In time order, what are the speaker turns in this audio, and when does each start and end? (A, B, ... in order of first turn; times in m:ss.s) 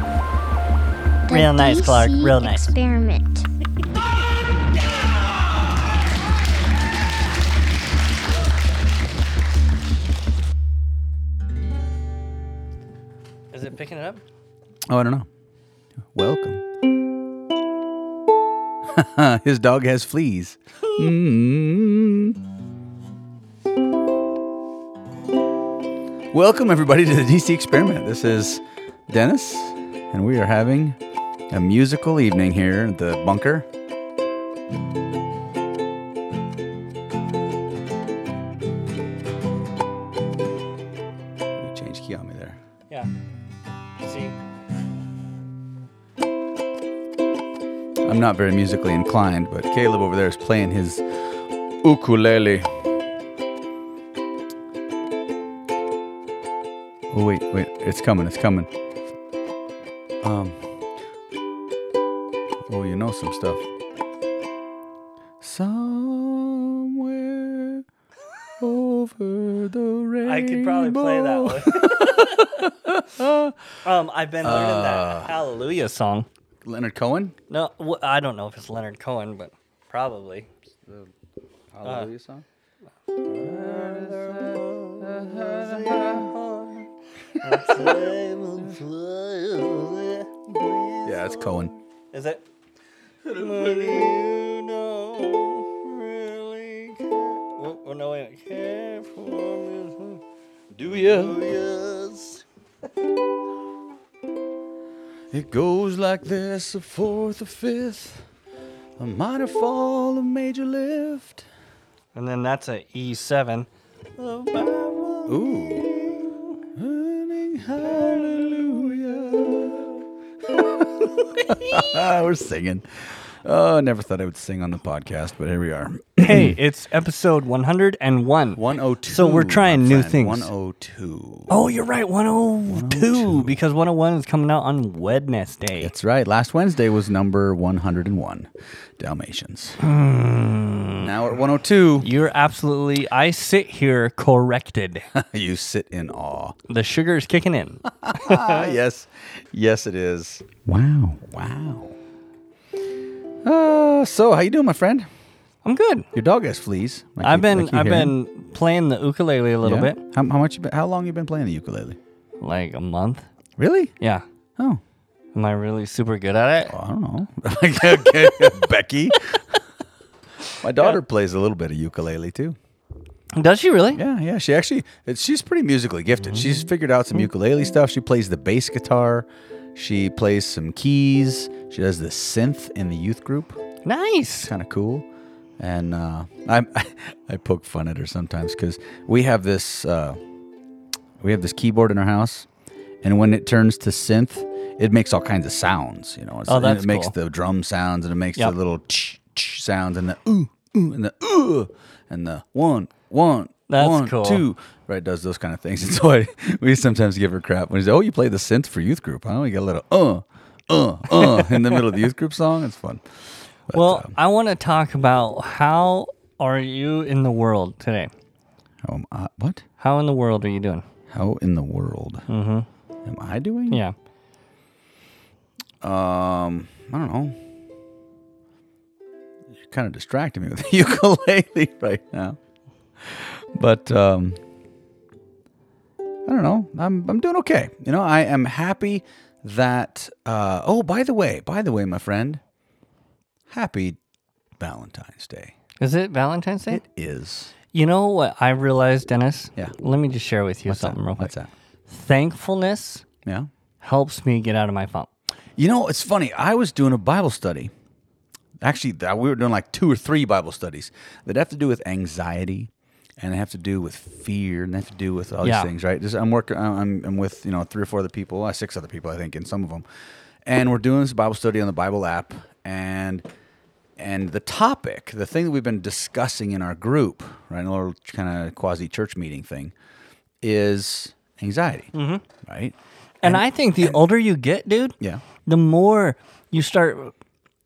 0:01.3-0:03.5 A
0:01.3-0:02.7 B
0:13.5-0:14.2 B
0:14.9-0:15.3 C
0:16.1-0:16.6 C
0:18.8-0:22.4 C
0:26.3-0:31.0 C
0:31.5-0:33.7 C
0:41.6-0:42.6 C
0:44.0-0:44.4 B
0:48.0-0:52.9 C
0:57.1-0:58.7 C
1:00.2-1:00.7 C
1:02.6-1:03.7 C
1:05.4-1:07.8 C
1:08.6-1:13.6 C
1:10.2-1:12.6 B
1:13.8-1:16.3 B
1:14.4-1:15.3 C
1:16.6-1:17.3 C
1:17.5-1:20.5 B
1:21.7-1:22.4 C
1:21.8-1:22.1 B
1:23.3-1:26.3 C
1:23.4-1:26.8 B
1:27.4-1:32.4 B
1:27.4-1:28.0 C
1:31.0-1:31.7 C
1:33.2-1:34.1 C
1:33.3-1:40.2 B
1:40.7-1:41.5 C
1:40.9-1:42.4 B
1:45.3-1:48.2 C
1:49.0-1:51.4 C
1:52.1-1:56.6 B
1:55.3-1:55.9 C
1:56.7-2:06.6 C
2:06.2-2:10.5 B
2:08.5-2:11.5 C
2:11.5-2:15.9 B
2:12.7-2:13.6 C
2:15.8-2:19.8 C
2:19.8-2:21.1 B
2:21.0-2:22.1 C
2:22.0-2:25.1 B
2:25.1-2:26.5 C
2:26.7-2:28.7 B
2:28.0-2:31.9 C
2:33.4-2:35.1 C
2:35.6-2:36.1 B
2:36.1-2:38.1 C
2:37.2-2:40.0 B
2:39.6-2:42.0 C
2:42.4-2:43.3 B
2:43.6-2:43.9 C
2:45.3-2:46.7 B
2:46.7-2:49.6 C
2:50.6-2:52.6 C
2:53.3-2:54.0 B
2:53.9-3:03.6 C
2:56.3-2:56.6 B
3:03.8-3:04.5 B
3:04.4-3:05.0 C
3:05.6-3:10.2 C
3:11.2-3:12.5 C
3:13.0-3:33.0 C
3:16.5-3:17.1 B
3:23.7-3:24.4 B
3:33.7-3:34.1 C
3:33.7-3:38.1 B
3:38.8-3:39.6 C
3:39.8-3:40.8 B
3:41.1-3:42.2 C
3:42.3-3:42.7 B
3:43.0-3:43.8 C
3:45.8-3:47.4 C
3:49.6-3:52.4 C
3:53.0-3:54.4 C
3:56.2-4:02.4 C
4:03.5-4:04.0 C
4:04.6-4:05.5 C
4:05.8-4:06.8 B
4:06.7-4:07.5 C
4:07.7-4:11.3 B
4:10.6-4:11.5 C
4:11.9-4:13.0 B
4:13.8-4:15.1 B
4:15.6-4:17.7 C
4:18.6-4:29.8 C
4:25.4-4:25.7 B
4:30.4-4:33.2 C
4:34.0-4:39.7 C
4:40.4-4:44.0 C
4:41.9-4:42.2 B
4:43.2-4:47.1 B